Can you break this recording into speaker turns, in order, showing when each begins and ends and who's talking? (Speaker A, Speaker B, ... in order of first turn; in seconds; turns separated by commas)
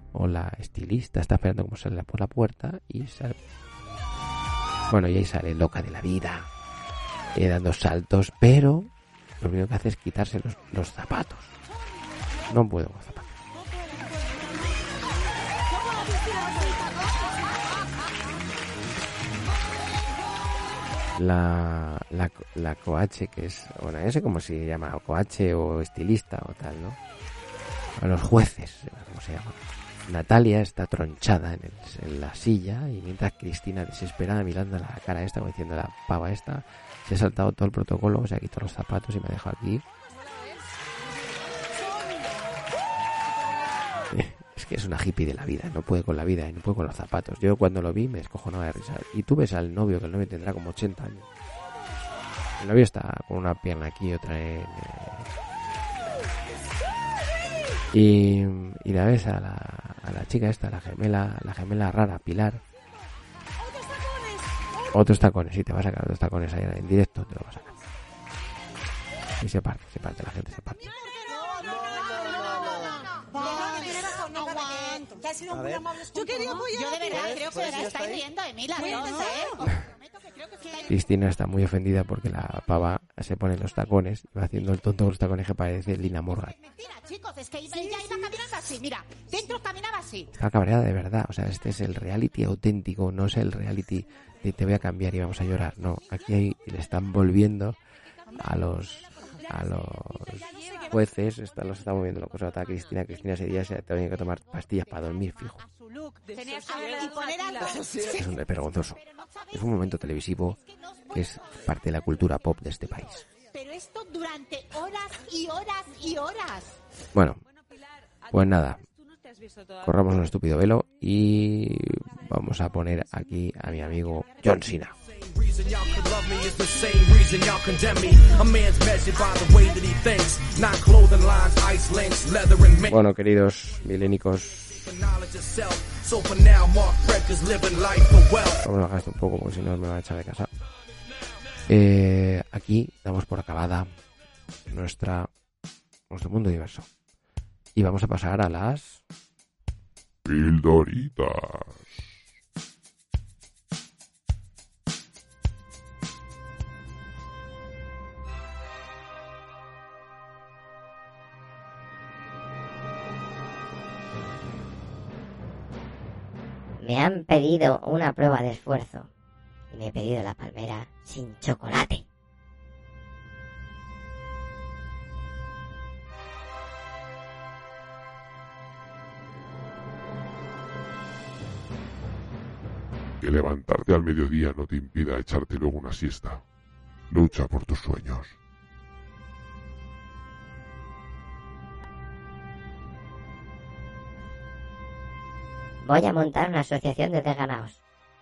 Speaker A: 0.1-3.4, Speaker A: 4.9-6.5, Speaker A: 7.3-8.9, Speaker A: 9.4-11.6, Speaker A: 12.5-13.3, Speaker A: 21.2-27.0, Speaker A: 28.0-39.8, Speaker A: 44.1-51.3, Speaker A: 52.6-55.3, Speaker A: 57.9-62.6, Speaker A: 64.9-67.7, Speaker A: 69.4-70.8, Speaker B: 73.3-80.9, Speaker A: 80.9-86.5, Speaker B: 86.6-90.3, Speaker A: 90.3-97.8, Speaker A: 98.4-105.6, Speaker B: 105.7-108.2, Speaker A: 108.1-110.6, Speaker A: 111.1-113.2, Speaker B: 113.5-116.8, Speaker A: 117.1-117.4, Speaker A: 118.3-118.8, Speaker A: 119.8-124.9, Speaker C: 125.0-133.0, Speaker A: 132.9-134.8, Speaker C: 134.7-138.6, Speaker A: 138.6-140.5, Speaker A: 141.7-143.9, Speaker A: 144.7-145.3, Speaker A: 146.1-146.9, Speaker A: 147.8-149.0, Speaker D: 150.3-152.1, Speaker E: 166.8-169.1, Speaker E: 169.7-172.0, Speaker D: 183.2-186.4, Speaker D: 187.1-188.4, Speaker E: 195.8-197.8